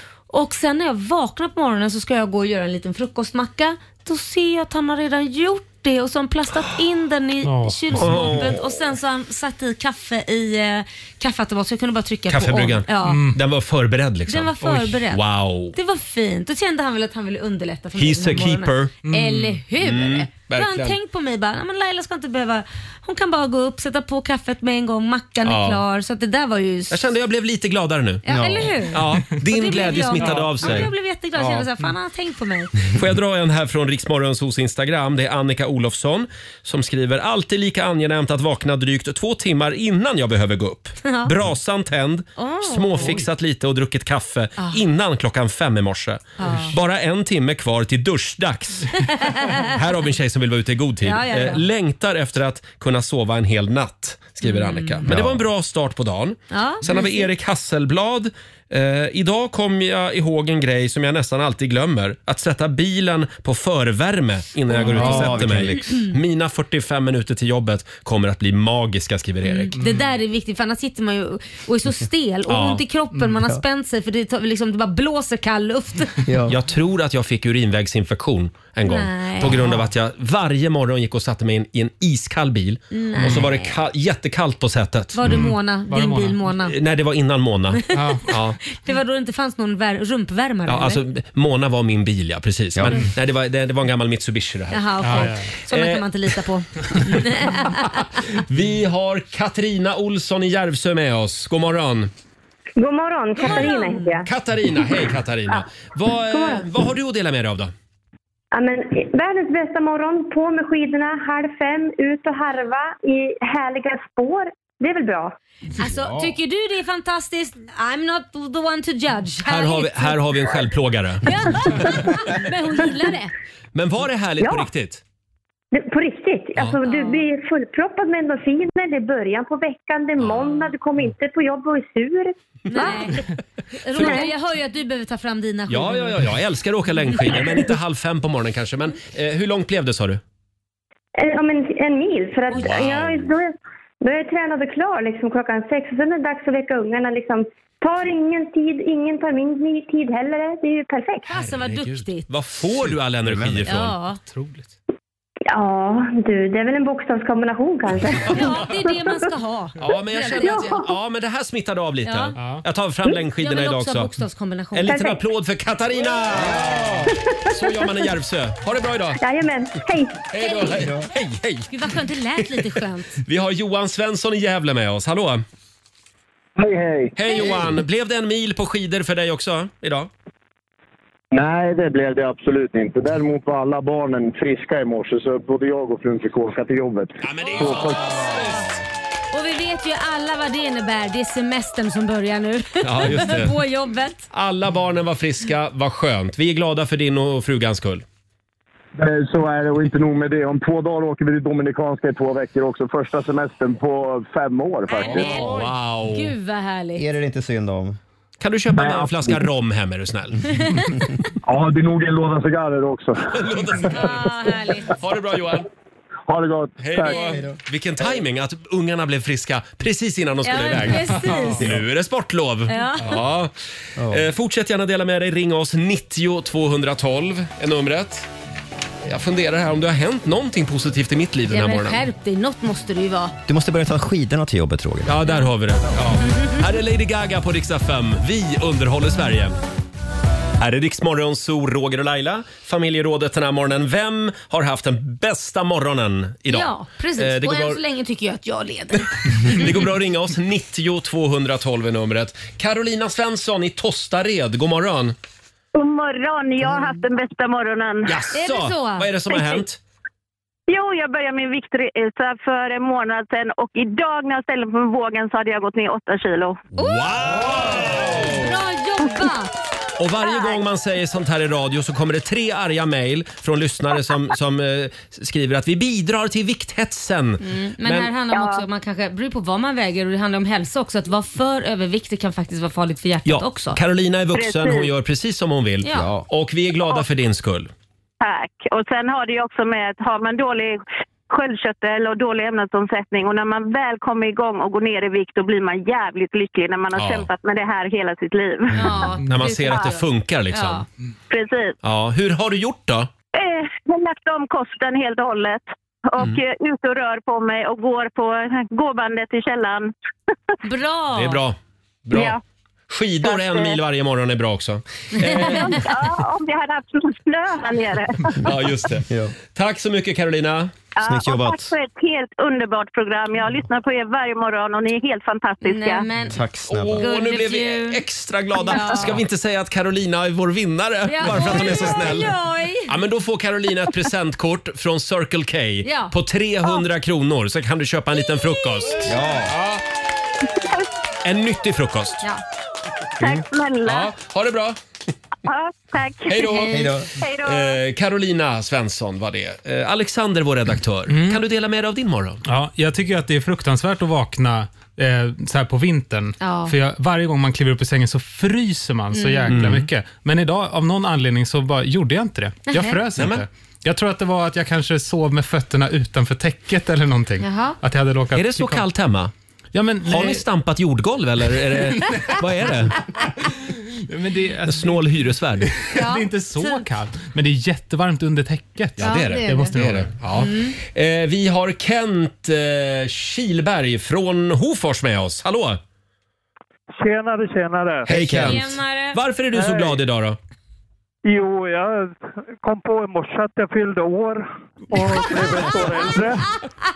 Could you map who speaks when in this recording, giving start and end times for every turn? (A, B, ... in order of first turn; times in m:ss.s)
0:00.3-0:13.2 A
0:07.4-0:08.3 B
0:07.9-0:08.6 C
0:12.3-0:15.8 C
0:13.0-0:13.4 B
0:14.3-0:15.2 A
0:15.7-0:27.0 A
0:18.0-0:19.0 C
0:19.0-0:19.5 B
0:19.8-0:21.0 C
0:25.4-0:25.8 C
0:26.9-0:28.2 C
0:28.2-0:32.8 A
0:28.3-0:28.8 D
0:28.9-0:31.7 C
0:30.2-0:30.8 B
0:32.9-1:09.7 C
0:41.0-0:41.3 A
0:42.4-0:43.2 A
0:46.4-0:46.7 A
0:49.0-0:49.7 A
0:51.0-0:51.6 A
0:54.4-0:55.0 A
0:55.1-0:55.4 D
0:56.5-0:57.3 A
1:04.7-1:06.0 D
1:05.0-1:05.2 A
1:09.4-1:16.2 A
1:09.8-1:10.0 B
1:12.5-1:12.8 C
1:16.2-1:16.5 D
1:16.5-1:25.4 C
1:18.8-1:19.6 A
1:19.5-1:19.9 B
1:22.9-1:23.8 A
1:25.1-1:26.8 A
1:25.3-1:26.4 B
1:26.6-1:28.6 C
1:27.9-1:28.3 B
1:27.9-1:31.0 A
1:30.7-1:36.3 C
1:32.8-1:33.0 D
1:34.7-1:38.2 A
1:35.0-1:35.5 B
1:38.3-1:42.1 C
1:42.8-1:44.3 E
1:43.4-1:43.7 C
1:43.4-1:44.1 A
1:44.2-1:47.7 C
1:46.3-1:46.7 E
1:48.5-1:55.3 E
1:55.8-2:00.2 A
1:55.8-1:56.3 D
1:59.4-2:02.1 C
2:01.2-2:03.3 A
2:03.7-2:05.0 C
2:04.4-2:04.7 E
2:05.7-2:13.1 E
2:06.6-2:06.8 C
2:06.8-2:07.2 A
2:12.7-2:13.2 A
2:13.8-2:16.3 A
2:13.9-2:14.3 C
2:14.0-2:14.3 E
2:15.7-2:20.2 C
2:21.2-2:31.2 E
2:22.5-2:22.8 A
2:22.5-2:23.3 C
2:31.2-2:32.3 A
2:32.3-2:33.9 C
2:33.2-2:33.7 D
2:33.7-2:34.2 A
2:34.2-2:34.7 B
2:35.5-2:38.9 E
2:38.3-2:40.7 A
2:39.8-2:44.1 C
2:40.3-2:40.9 E
2:42.0-2:42.4 A
2:42.4-2:42.6 B
2:43.4-2:45.0 A
2:44.7-2:49.2 C
2:44.9-2:45.2 E
2:46.4-2:46.9 D
2:49.2-2:50.1 E
2:50.3-2:52.6 C
2:50.4-2:50.9 A
2:51.7-2:53.2 A
2:53.2-2:55.4 C
2:56.6-2:57.1 F
2:57.2-3:00.1 C
3:01.3-3:08.0 F
3:07.2-3:08.6 C
3:08.2-3:08.6 A
3:09.3-3:14.2 A
3:12.8-3:13.5 C
3:14.3-3:18.0 C
3:19.0-3:25.5 F
3:24.9-3:27.0 A
3:25.1-3:26.3 C
3:27.0-3:28.0 D
3:28.4-3:30.4 C
3:28.7-3:29.4 F
3:31.4-3:33.2 F
3:33.3-3:34.3 C
3:33.9-3:34.9 A
3:35.0-3:35.7 C
3:36.3-3:37.2 F
3:36.8-3:48.3 C
3:37.0-3:37.4 A
3:40.4-3:41.6 A
3:42.7-3:43.1 A
3:44.0-3:44.2 D
3:49.0-3:52.0 C
3:51.5-3:53.3 A
3:53.5-3:55.1 D
3:55.0-3:59.6 C
4:00.6-4:07.8 C
4:06.5-4:09.6 A
4:09.4-4:15.1 C
4:15.7-4:18.1 G
4:18.0-4:19.8 C
4:18.3-4:19.6 A
4:20.7-4:26.6 G
4:26.8-4:27.2 A
4:26.8-4:28.5 C
4:28.3-4:29.5 A
4:30.0-4:38.1 C
4:37.4-4:43.8 A
4:43.2-4:47.7 C
4:44.3-4:44.9 G
4:45.8-4:46.1 A
4:45.9-4:46.2 D
4:48.2-4:50.8 G
4:51.3-4:59.0 G
4:56.9-4:57.3 C
4:58.7-4:59.8 A
4:58.7-5:00.8 C
4:59.2-4:59.5 B
5:00.5-5:00.8 A
5:01.3-5:01.7 G
5:01.8-5:03.1 C
5:03.3-5:09.9 G
5:10.6-5:11.4 A
5:11.1-5:12.4 C
5:12.1-5:12.4 G
5:12.9-5:15.9 C
5:13.4-5:13.8 G
5:15.1-5:15.8 A
5:15.7-5:18.3 G
5:18.4-5:20.7 C
5:21.0-5:26.0 G
5:21.0-5:21.7 D
5:25.6-5:26.4 A
5:26.3-5:27.1 D
5:26.7-5:32.3 C
5:27.0-5:28.0 A
5:28.6-5:29.2 A
5:31.0-5:32.9 A
5:32.8-5:39.8 C
5:35.8-5:36.1 A
5:39.0-5:39.6 D
5:40.6-5:40.8 G
5:41.2-5:42.2 C
5:43.2-5:44.1 G
5:43.8-5:44.8 C
5:45.4-5:46.3 G
5:46.3-5:52.4 C
5:46.4-5:46.9 A
5:46.7-5:47.1 D
5:47.2-5:47.7 G
5:52.4-6:08.8 B
5:56.4-5:56.7 A
5:59.1-5:59.6 A
5:59.5-5:59.9 C
6:02.7-6:03.0 A
6:03.2-6:03.4 C
6:07.4-6:07.8 A
6:08.3-6:09.3 C
6:09.7-6:10.4 B
6:10.0-6:13.0 C
6:12.0-6:12.4 B
6:14.1-6:15.0 B
6:14.6-6:15.8 C
6:15.9-6:16.8 A
6:15.9-6:20.1 B
6:19.0-6:25.8 C
6:19.0-6:19.7 A
6:20.4-6:20.7 A
6:27.0-6:28.1 H
6:28.1-6:28.6 D
6:28.1-6:30.4 C
6:28.4-6:29.2 A
6:29.5-6:30.0 H
6:31.2-6:36.5 H